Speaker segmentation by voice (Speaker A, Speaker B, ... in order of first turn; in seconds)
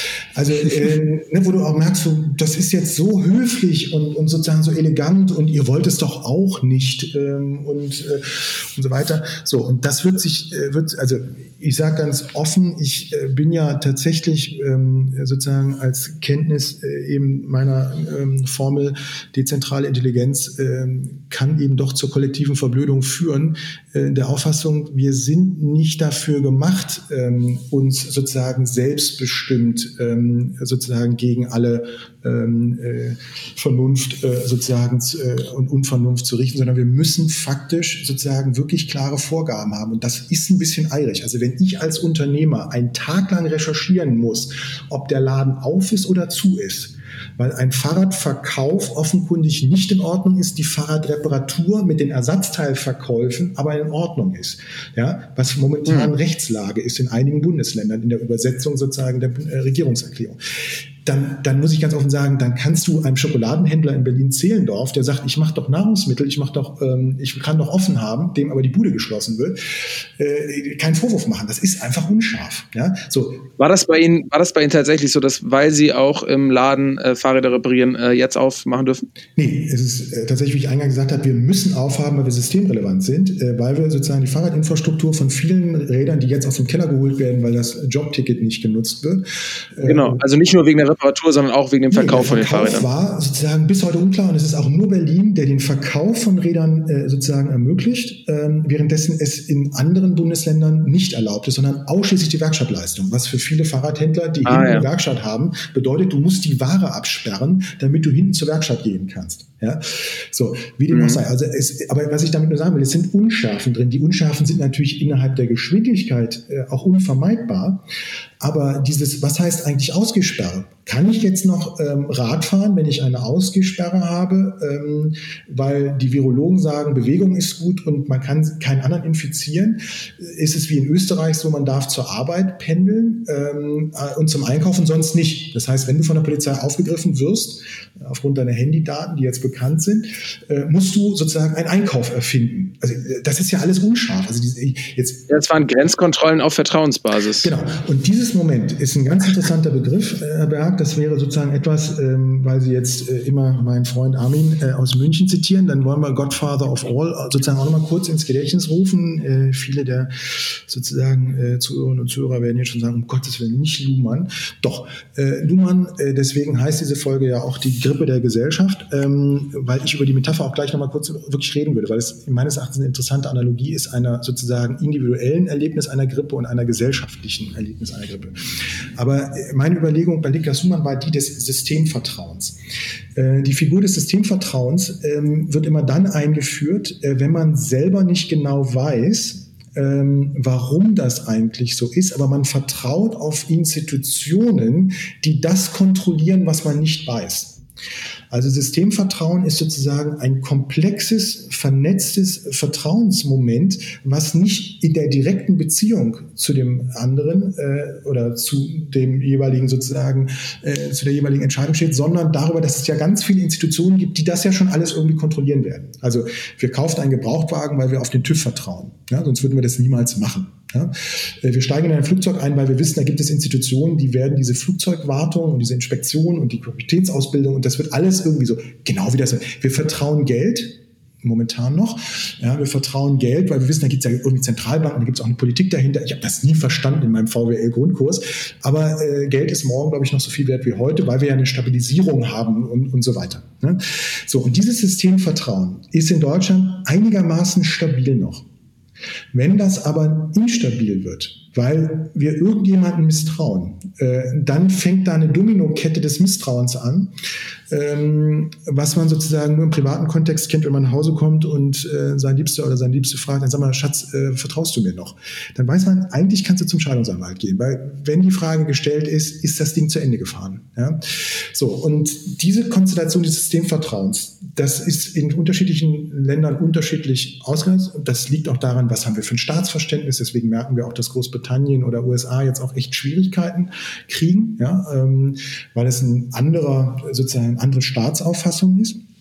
Speaker A: 0.3-60.4, 61.0-73.5, 79.3-89.2, 89.7-90.2, 91.9-117.8, 118.4-145.2, 147.4-178.3, 178.9-182.6, 183.1-197.6, 198.3-248.4, 249.3-257.1, 257.7-289.0
Speaker B: 55.9-56.1, 73.6-79.0, 89.8-92.8, 104.4-104.9, 110.9-111.2, 145.3-147.5